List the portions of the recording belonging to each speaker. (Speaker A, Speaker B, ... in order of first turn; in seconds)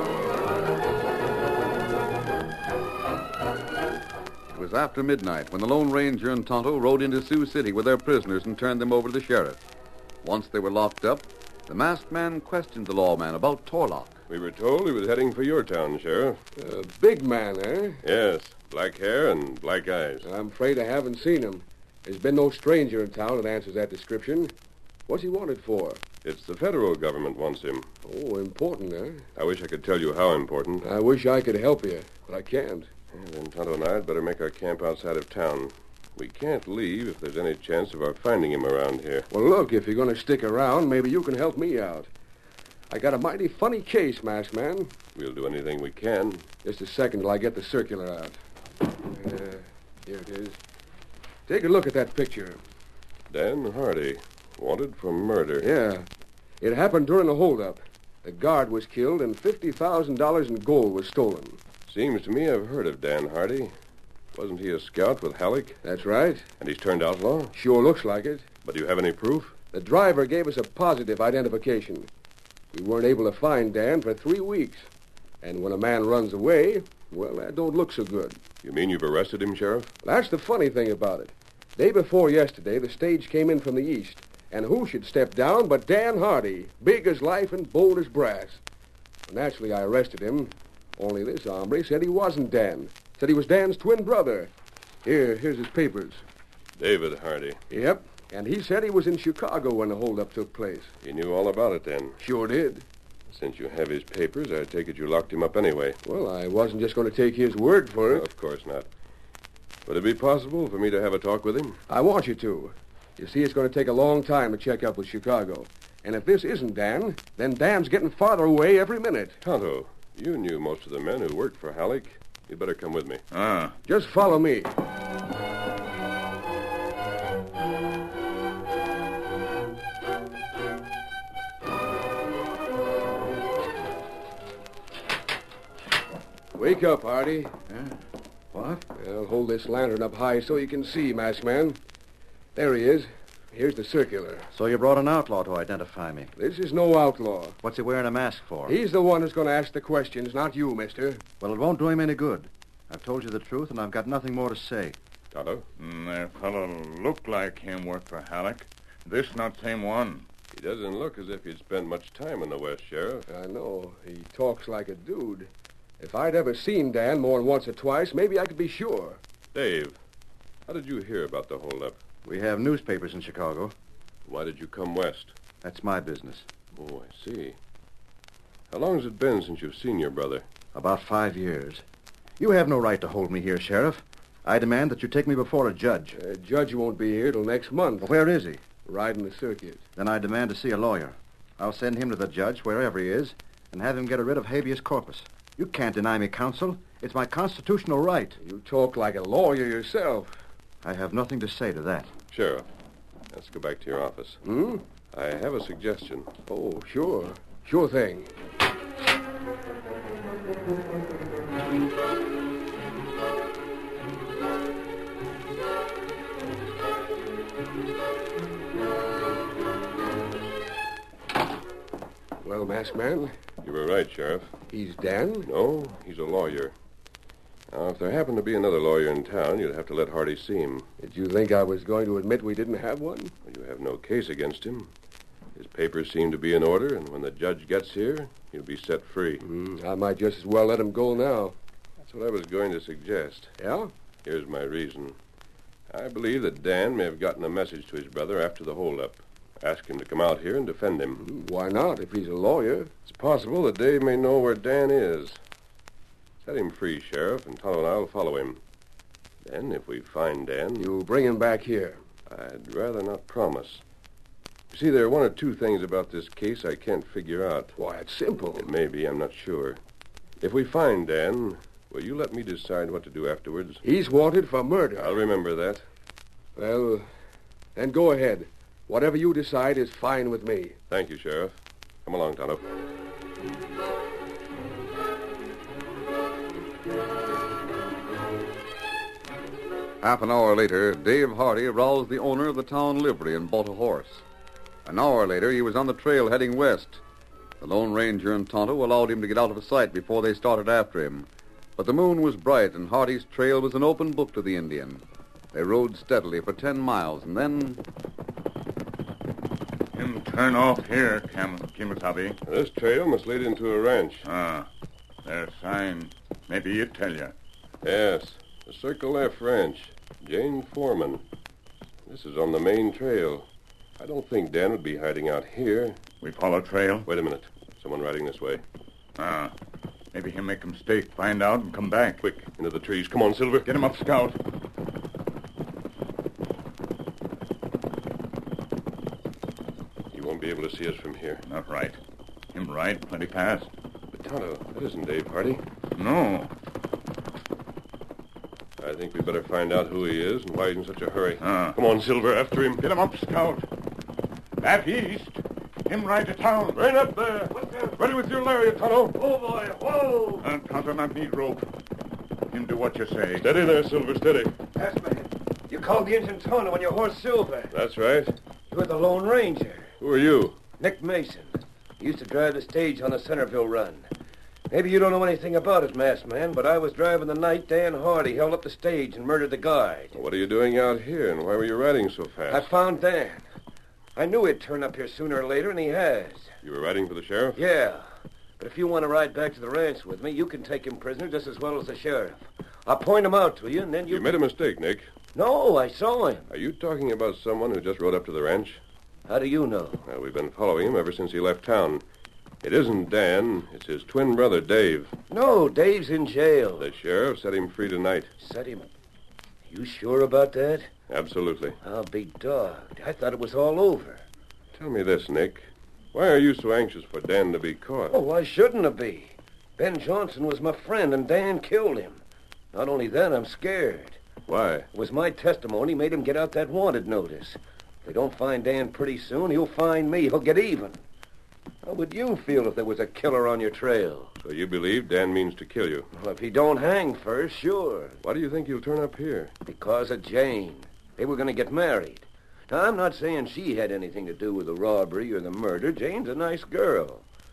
Speaker A: 4.5-9.6, 10.2-14.2, 290.0-294.2, 294.9-297.0, 297.6-307.8
Speaker B: 14.3-16.4, 18.0-20.3, 26.2-27.9, 29.4-30.9, 33.1-39.3, 45.1-46.5, 53.3-55.7, 61.9-63.7, 64.3-65.8, 66.6-67.5, 68.6-69.6, 78.6-79.9, 96.8-97.6, 101.0-102.2, 103.3-106.0, 108.1-108.9, 109.9-111.8, 119.4-123.2, 155.3-155.7, 160.5-163.3, 169.5-170.0, 170.7-172.0, 174.3-175.3, 176.8-177.6, 178.7-180.4, 202.3-202.7, 203.3-204.4, 205.1-206.3, 223.6-224.5, 225.4-226.7, 227.7-230.9, 233.4-234.9, 235.6-239.4, 242.0-243.6, 244.2-245.2, 245.9-251.3, 253.1-255.4, 256.4-258.6, 259.4-260.9, 262.3-263.8, 264.7-267.8, 268.6-269.8, 270.4-273.8, 275.0-275.9, 280.9-282.6, 312.5-314.3, 317.8-321.2, 322.1-323.5, 324.0-326.0, 327.1-328.6, 332.2-333.7, 340.1-341.4, 344.1-345.6, 348.8-352.9, 356.8-359.6, 363.4-364.6, 367.7-368.4, 370.0-370.6, 380.1-382.7, 386.6-387.6, 394.1-395.1, 396.5-398.8, 400.1-402.0, 402.6-405.1, 406.8-408.3, 411.1-411.8, 414.7-418.2, 424.5-424.9, 434.4-436.1, 438.2-439.5
Speaker C: 16.6-18.0, 20.2-24.5, 25.1-26.0, 28.1-29.2, 30.8-32.9, 39.3-42.1, 42.9-44.9, 46.6-48.4, 49.1-50.6, 51.5-52.6, 55.6-56.1, 56.6-61.6, 65.8-66.5, 67.5-68.5, 69.7-72.1, 72.7-74.9, 75.4-78.4, 80.0-88.6, 89.3-94.5, 95.0-96.2, 97.7-100.9, 102.2-102.8, 106.0-108.3, 111.9-119.4, 123.9-124.7, 136.6-137.5, 139.0-141.8, 142.6-144.5, 146.4-147.6, 148.7-151.2, 163.3-169.2, 186.2-188.1, 188.8-189.8, 198.4-200.4, 204.4-204.8, 206.5-208.3, 222.4-223.3, 224.7-225.5, 231.0-233.3, 239.4-241.6, 243.6-243.9, 251.2-252.9, 260.8-262.0, 267.8-268.7, 273.8-275.2, 276.6-277.1, 277.8-280.8
Speaker D: 123.3-123.8, 155.8-160.3, 309.9-312.4, 314.2-314.7, 315.2-317.3, 326.2-327.1, 329.2-329.5, 330.1-332.2, 333.6-334.4, 341.5-342.0, 342.5-343.7, 346.0-346.5, 351.4-351.8, 352.8-353.7, 354.6-356.8, 360.4-361.7, 362.5-363.5
Speaker E: 137.7-138.0, 138.5-138.8, 144.5-146.3, 147.6-148.8, 151.4-155.0, 172.2-173.7, 175.6-176.5, 180.7-181.8, 182.4-186.2, 188.0-188.7, 190.0-198.4, 200.8-202.1
Speaker F: 357.5-357.9, 359.6-360.4, 364.8-367.7, 368.7-369.9, 370.8-374.1, 374.7-380.1, 382.5-383.4, 384.1-386.5, 387.6-394.4, 395.3-396.5, 399.3-400.1, 405.3-406.9, 408.4-408.9, 409.7-410.9, 411.8-414.2, 418.1-422.2, 422.7-424.2, 424.9-431.0, 431.8-434.3, 436.1-438.2, 439.7-447.2